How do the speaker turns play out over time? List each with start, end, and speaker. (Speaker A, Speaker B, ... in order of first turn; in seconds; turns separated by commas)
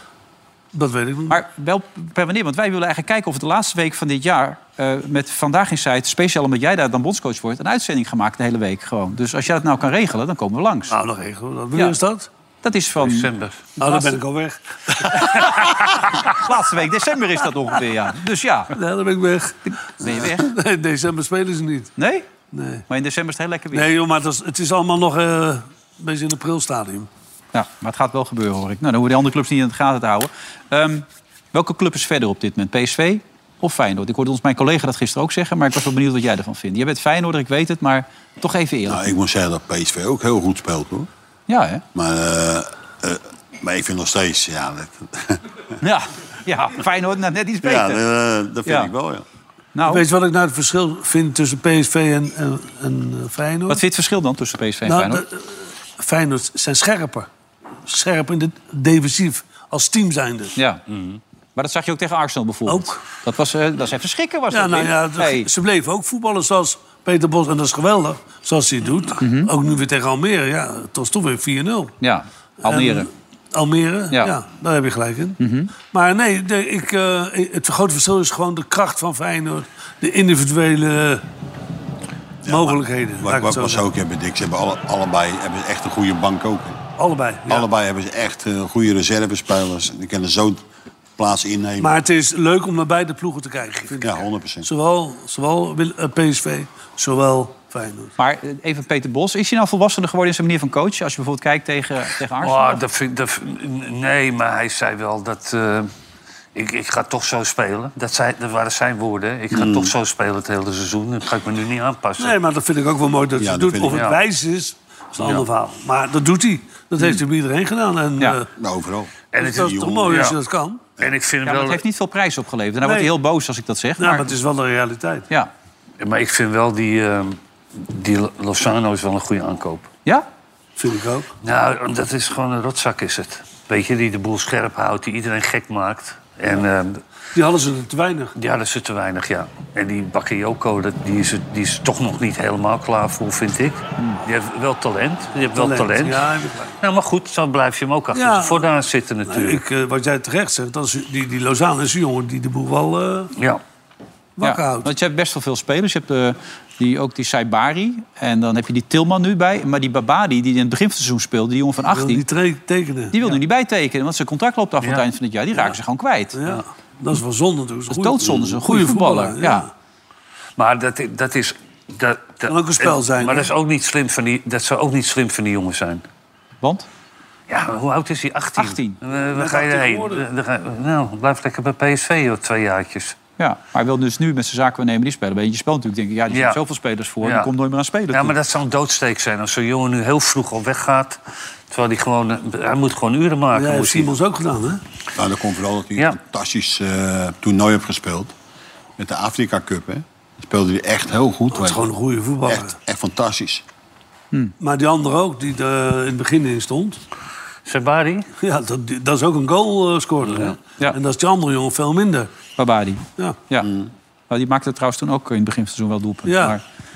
Speaker A: 0.7-1.4, Speaker B: 1.3-10.9, Speaker A: 10.9-12.3, Speaker B: 12.6-13.3, Speaker C: 13.0-13.7, Speaker A: 13.8-15.7, Speaker B: 13.8-14.2, Speaker B: 15.1-18.8, Speaker A: 18.7-21.9, Speaker B: 19.6-20.5, Speaker B: 22.0-22.3, Speaker A: 22.5-22.8, Speaker B: 22.9-23.9, Speaker A: 23.7-27.1, Speaker B: 27.5-39.0, Speaker D: 38.9-41.1, Speaker B: 41.5-41.8, Speaker D: 41.9-45.4, Speaker B: 45.8-48.0, Speaker D: 47.6-49.2, Speaker B: 48.6-48.9, Speaker B: 49.7-50.0, Speaker A: 49.8-53.8, Speaker B: 53.7-55.2, Speaker A: 54.8-57.3, Speaker A: 57.9-60.5, Speaker B: 60.5-60.8, Speaker C: 60.9-61.2, Speaker B: 61.5-65.5, Speaker A: 62.7-63.0, Speaker A: 64.5-71.9, Speaker B: 69.2-69.5, Speaker B: 72.0-73.1, Speaker A: 72.6-75.4, Speaker B: 75.4-75.7, Speaker A: 75.9-81.2, Speaker D: 82.4-86.8, Speaker A: 82.5-83.8, Speaker A: 87.0-87.7, Speaker D: 87.5-90.6, Speaker D: 91.2-91.9, Speaker A: 91.8-98.1, Speaker D: 94.0-94.7, Speaker B: 98.2-102.8, Speaker C: 102.4-105.9, Speaker C: 106.5-112.4, Speaker D: 109.5-109.9, Speaker A: 112.2-118.5, Speaker D: 113.4-114.1, Speaker C: 113.9-114.2, Speaker D: 118.5-120.3, Speaker C: 119.3-120.4, Speaker A: 119.4-120.9, Speaker C: 121.0-121.8, Speaker B: 121.4-124.3, Speaker A: 122.8-123.1, Speaker A: 124.0-125.2, Speaker C: 126.0-129.9, Speaker A: 130.8-131.3, Speaker C: 131.4-137.0, Speaker A: 137.3-138.3, Speaker C: 138.3-146.3, Speaker A: 145.5-146.8, Speaker C: 146.8-149.6, Speaker A: 148.1-148.7, Speaker A: 149.3-153.3, Speaker A: 154.4-154.9, Speaker B: 154.4-162.2, Speaker A: 161.9-163.2, Speaker B: 163.1-166.3, Speaker A: 166.3-169.7, Speaker B: 167.9-169.7, Speaker C: 170.6-176.0, Speaker A: 172.5-173.5, Speaker B: 176.6-176.9, Speaker C: 177.5-183.2, Speaker B: 178.6-179.0, Speaker A: 179.2-180.2, Speaker B: 183.4-188.3, Speaker C: 186.3-186.6, Speaker C: 187.2-187.5, Speaker C: 188.1-194.1, Speaker A: 193.5-194.8, Speaker D: 195.2-198.3, Speaker D: 199.0-201.9, Speaker A: 201.5-202.7, Speaker D: 202.4-203.6, Speaker A: 204.6-207.0, Speaker C: 207.7-208.3, Speaker A: 208.4-212.3, Speaker B: 212.6-213.7, Speaker D: 213.6-213.9, Speaker B: 214.3-216.6, Speaker A: 216.2-216.6